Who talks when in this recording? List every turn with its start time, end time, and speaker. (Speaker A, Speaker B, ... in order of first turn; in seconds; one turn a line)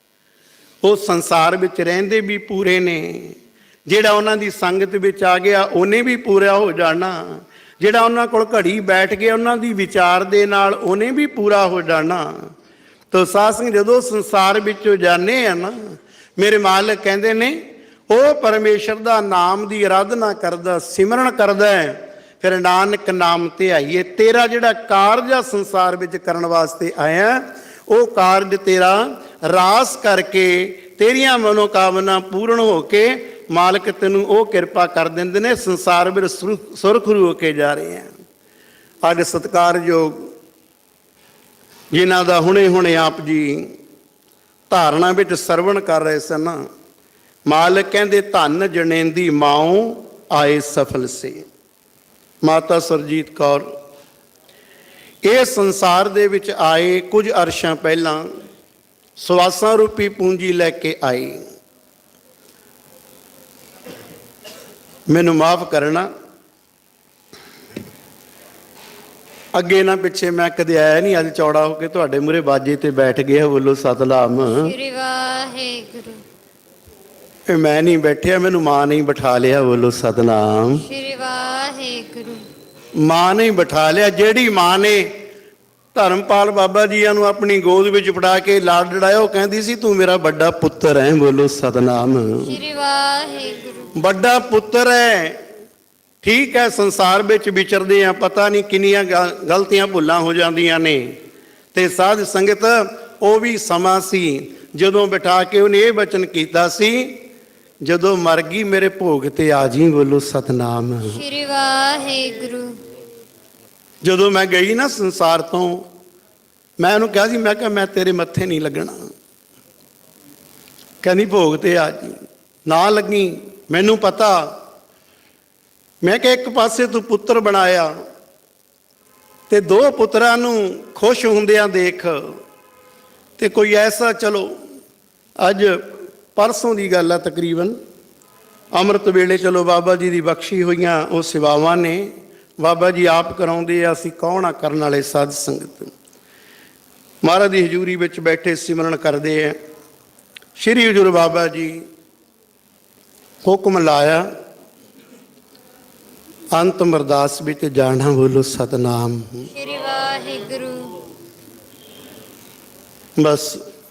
Speaker A: 0.8-12.5
Speaker A: 13.1-15.8
Speaker A: 16.4-38.1
Speaker A: 39.0-40.2
Speaker A: 41.9-43.7
Speaker A: 44.7-46.6
Speaker A: 47.5-51.5
Speaker A: 52.4-53.7
Speaker A: 55.2-58.3
Speaker A: 59.2-61.4
Speaker A: 65.1-66.1
Speaker A: 69.5-74.7
Speaker B: 74.5-76.2
Speaker A: 77.5-80.8
Speaker B: 80.8-82.5
Speaker A: 83.0-85.1
Speaker A: 85.9-92.5
Speaker B: 92.4-94.0
Speaker A: 94.0-95.4
Speaker A: 96.2-101.1
Speaker A: 101.7-107.2
Speaker A: 107.8-111.2
Speaker B: 111.1-112.8
Speaker A: 114.0-115.9
Speaker A: 116.8-119.0
Speaker A: 121.0-124.5
Speaker A: 126.0-127.9
Speaker A: 129.5-132.4
Speaker A: 133.4-134.5
Speaker A: 135.4-137.8
Speaker A: 138.8-145.9
Speaker A: 147.2-149.6
Speaker A: 150.6-151.8
Speaker A: 153.4-154.3
Speaker A: 156.5-159.5
Speaker B: 159.5-161.0
Speaker A: 163.2-163.6